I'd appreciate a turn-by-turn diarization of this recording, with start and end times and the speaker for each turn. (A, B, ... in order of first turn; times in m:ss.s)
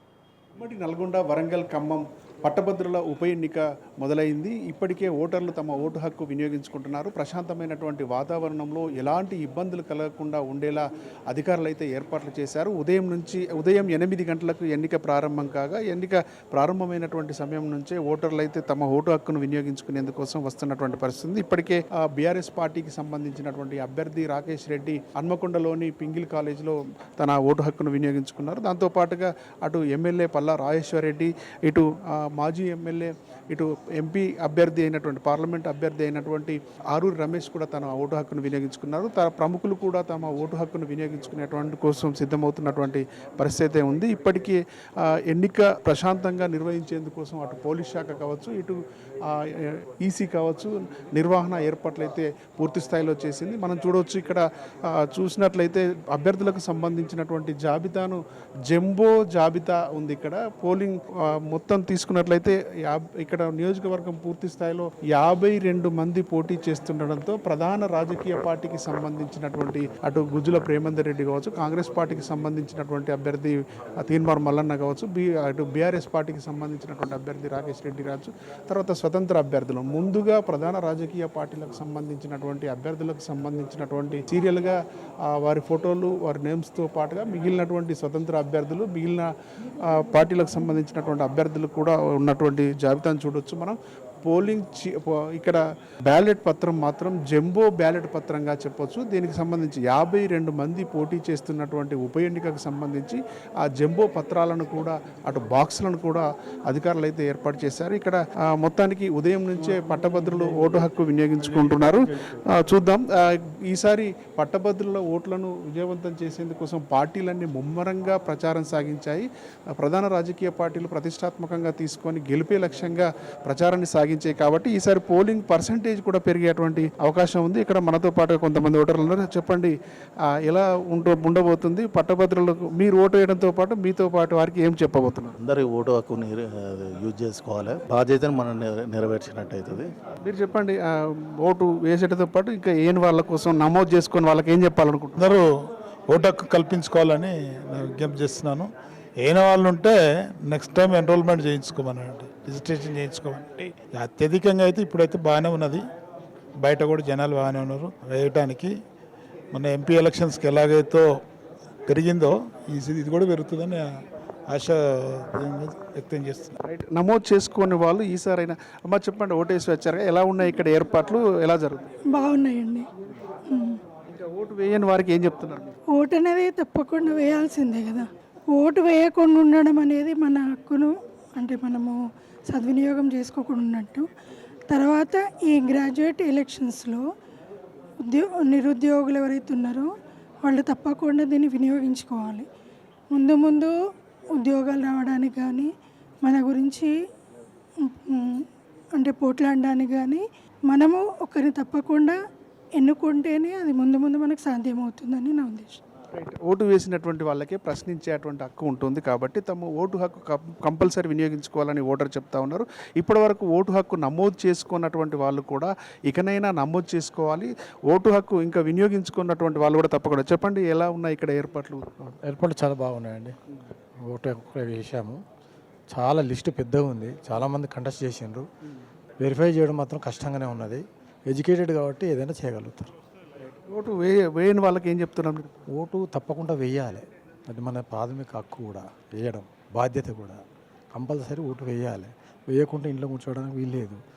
0:00.6-1:29.3 A
1:29.8-2:09.7 A
2:10.3-2:15.3 A
2:15.4-2:19.9 B
2:20.2-2:25.3 A
2:26.1-2:28.7 C
2:29.2-2:29.9 C
2:30.5-2:35.8 C
2:36.6-2:38.7 C
2:39.5-2:41.1 C
2:41.9-2:43.8 C
2:44.5-2:46.6 C
2:46.6-2:51.9 A
2:52.1-2:52.9 D
2:53.5-2:53.8 D
2:54.1-2:55.7 A
2:55.9-3:02.0 D
3:02.5-3:04.0 D
3:04.7-3:07.0 D
3:08.1-3:09.9 D
3:10.4-3:12.4 D
3:13.1-3:13.7 D
3:14.4-3:15.7 D
3:16.2-3:16.9 D
3:17.8-3:18.4 D
3:18.9-3:22.2 D
3:22.8-3:25.8 D
3:26.1-3:42.0 A
3:42.3-3:43.3 E
3:44.1-3:45.2 E
3:45.9-3:48.4 E
3:49.2-3:52.9 E
3:53.7-3:55.5 A
3:55.8-3:56.6 C
3:55.8-4:00.4 E
3:57.9-3:58.4 C
4:01.0-4:04.0 E
4:03.3-4:03.6 C